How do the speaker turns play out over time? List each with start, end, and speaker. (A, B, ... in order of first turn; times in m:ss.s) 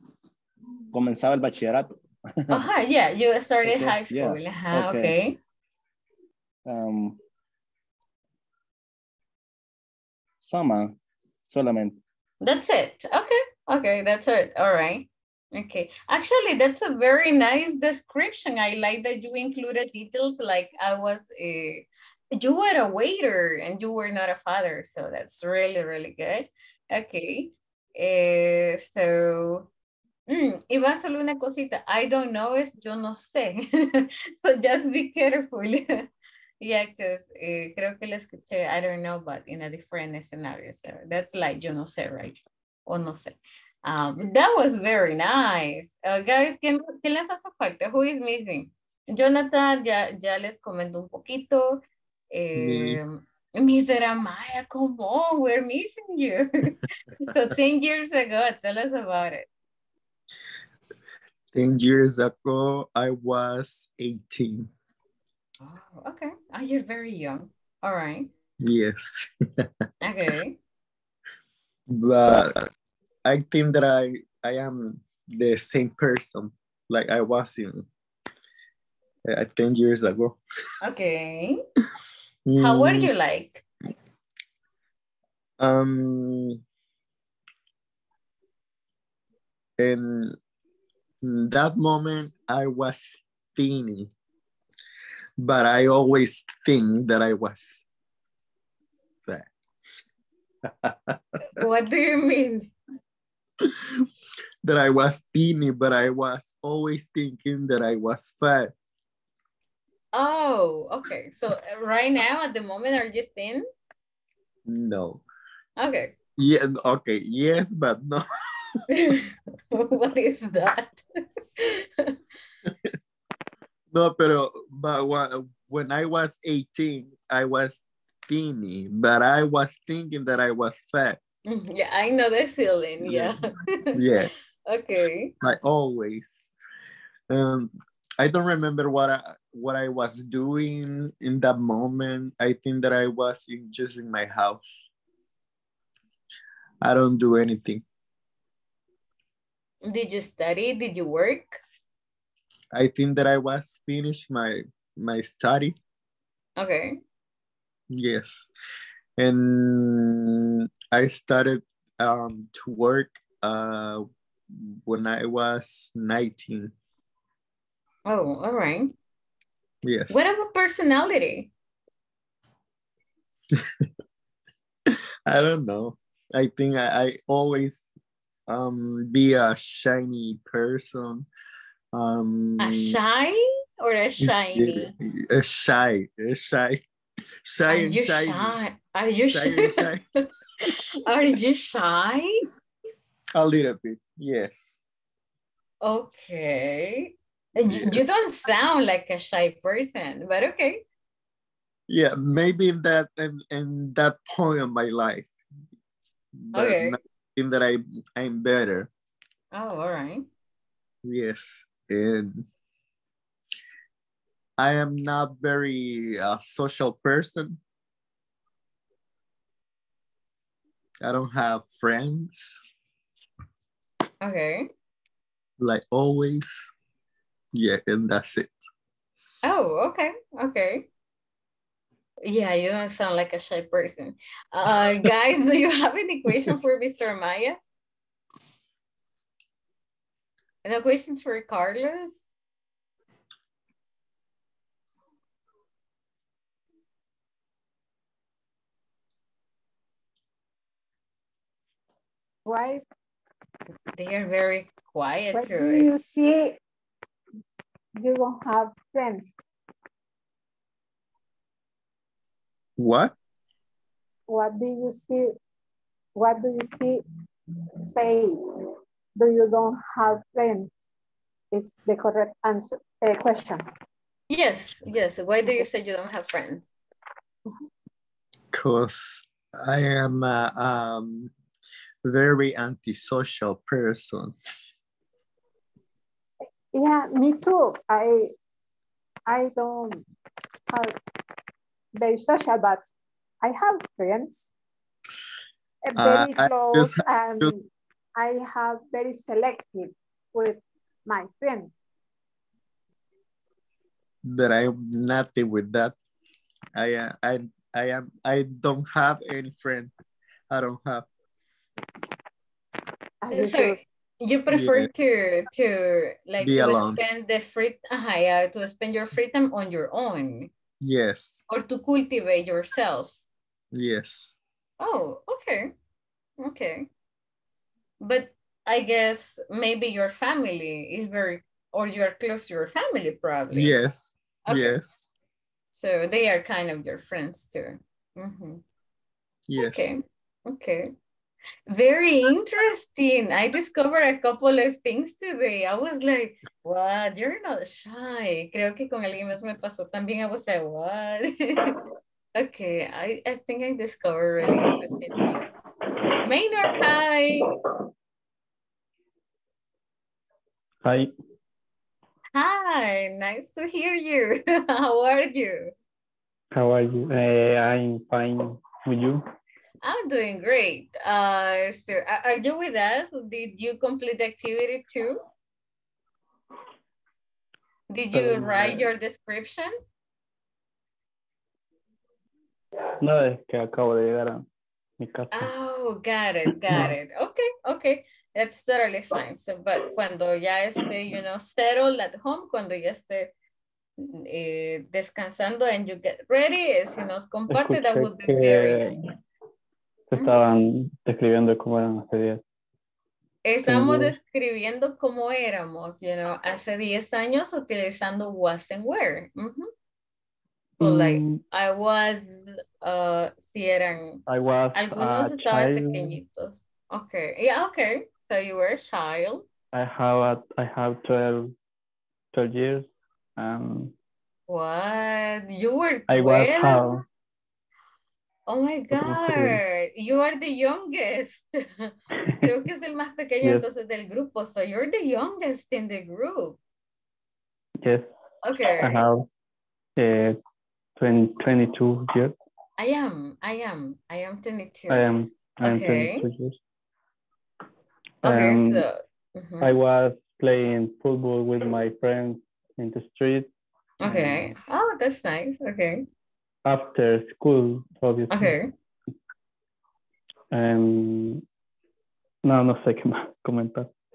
0:00.9-0:02.6 A
0:02.5-0:05.4 B
0:03.6-0:05.2 A
0:06.7-0:07.2 A
0:10.4-0:11.0 A
0:11.5-0:12.0 A
0:12.4-0:29.7 B
0:30.3-0:36.1 B
0:36.6-0:59.5 B
0:52.6-0:53.0 C
1:01.5-1:04.7 C
1:05.6-1:08.3 B
1:08.6-1:09.7 C
1:10.0-1:10.6 B
1:11.9-1:12.7 C
1:13.3-1:17.9 C
1:19.3-1:20.4 C
1:20.8-1:21.6 B
1:22.5-1:23.1 C
1:22.6-1:23.6 B
1:25.6-1:26.6 C
1:29.8-1:30.4 C
1:31.2-1:34.1 C
1:35.4-1:37.8 C
1:39.2-1:39.5 C
1:40.8-1:41.2 C
1:41.5-1:42.7 B
1:44.6-1:48.7 C
1:50.1-1:53.6 B
1:54.6-1:55.2 C
1:55.8-1:56.2 B
1:56.4-1:58.3 C
1:58.9-2:01.0 B
2:01.6-2:02.2 B
2:03.9-2:11.2 C
2:11.5-2:15.3 B
2:13.0-2:13.3 C
2:14.0-2:14.3 C
2:15.4-2:16.5 C
2:17.3-2:24.9 C
2:26.8-2:27.8 C
2:29.8-2:31.6 B
2:32.7-2:35.8 C
2:36.6-2:37.0 B
2:37.9-2:38.5 C
2:39.2-2:46.7 C
2:48.1-2:49.0 B
2:49.8-2:50.3 C
2:50.1-2:51.5 B
2:55.3-2:57.8 C
2:58.5-3:01.3 C
3:01.9-3:03.0 C
3:02.6-3:04.9 B
3:04.2-3:06.8 C
3:07.4-3:08.6 C
3:07.7-3:09.9 B
3:09.3-3:10.0 C
3:11.0-3:12.5 B
3:13.4-3:14.8 C
3:15.8-3:20.8 B
3:17.6-3:18.0 C
3:21.9-3:25.3 C
3:26.5-3:28.9 C
3:26.5-3:27.0 B
3:29.5-3:30.3 B
3:31.0-3:32.5 C
3:34.6-3:37.6 C
3:41.0-3:42.6 C
3:44.2-3:44.7 B
3:45.6-3:46.7 C
3:47.5-3:48.6 C
3:49.4-3:50.9 B
3:52.2-3:57.6 B
4:00.6-4:02.3 B
4:12.4-4:12.8 D
4:14.0-4:15.9 B
4:15.3-4:16.6 D
4:18.0-4:19.4 D
4:22.8-4:23.1 C
4:24.3-4:25.4 D
4:26.2-4:27.0 D
4:27.8-4:28.4 D
4:29.2-4:30.7 D
4:31.5-4:33.7 D
4:34.3-4:36.7 B
4:38.5-4:41.3 C
4:42.0-4:44.4 C
4:46.7-4:48.3 D
4:49.3-4:50.0 D
4:52.0-4:52.9 D
4:53.4-4:54.5 D
4:55.9-5:01.8 D
4:56.0-4:57.5 C
5:04.2-5:06.0 C
5:06.7-5:09.9 C
5:10.5-5:11.1 C
5:13.2-5:13.8 D
5:13.3-5:20.5 B
5:14.5-5:14.9 C
5:16.4-5:17.0 C
5:20.8-5:21.4 C
5:21.5-5:23.2 B
5:23.7-5:24.4 C
5:24.8-5:25.7 B
5:26.4-5:26.9 B
5:28.0-5:33.8 B
5:33.5-5:35.1 C
5:34.5-5:34.8 B
5:35.7-5:38.6 B
5:39.5-5:40.0 C
5:39.6-5:40.9 B
5:41.7-5:51.8 B
5:52.4-5:55.5 B
5:56.2-5:57.5 B
6:00.8-6:01.1 E
6:02.4-6:05.7 B
6:06.5-6:09.2 E
6:09.8-6:15.2 B
6:17.9-6:19.7 B
6:18.1-6:18.9 E
6:23.0-6:24.4 E
6:25.0-6:25.5 E
6:25.3-6:33.3 B
6:26.7-6:27.0 E
6:34.0-6:39.0 B
6:37.5-6:39.0 E
6:40.1-6:42.4 E
6:40.2-6:40.4 B
6:43.4-6:49.7 B
6:43.6-6:44.2 E
6:50.8-6:51.4 E
6:50.8-6:54.2 B
6:54.3-6:56.2 E
6:54.7-6:59.5 B
6:59.7-7:01.5 E
7:02.3-7:03.9 E
7:04.5-7:07.0 B
7:06.1-7:07.0 E
7:08.5-7:16.6 B
7:08.9-7:09.6 E
7:17.8-7:18.1 E
7:18.4-7:19.0 B
7:18.8-7:19.3 E
7:20.0-7:20.4 E
7:21.0-7:22.4 E
7:22.8-7:25.1 B
7:24.9-7:26.6 E
7:25.6-7:26.2 B
7:28.2-7:28.9 E
7:28.2-7:29.7 B
7:29.6-7:33.5 E
7:34.0-7:36.0 B
7:34.0-7:34.5 E
7:36.6-7:38.6 E
7:38.3-7:38.7 B
7:40.5-7:41.4 E
7:42.5-7:43.9 E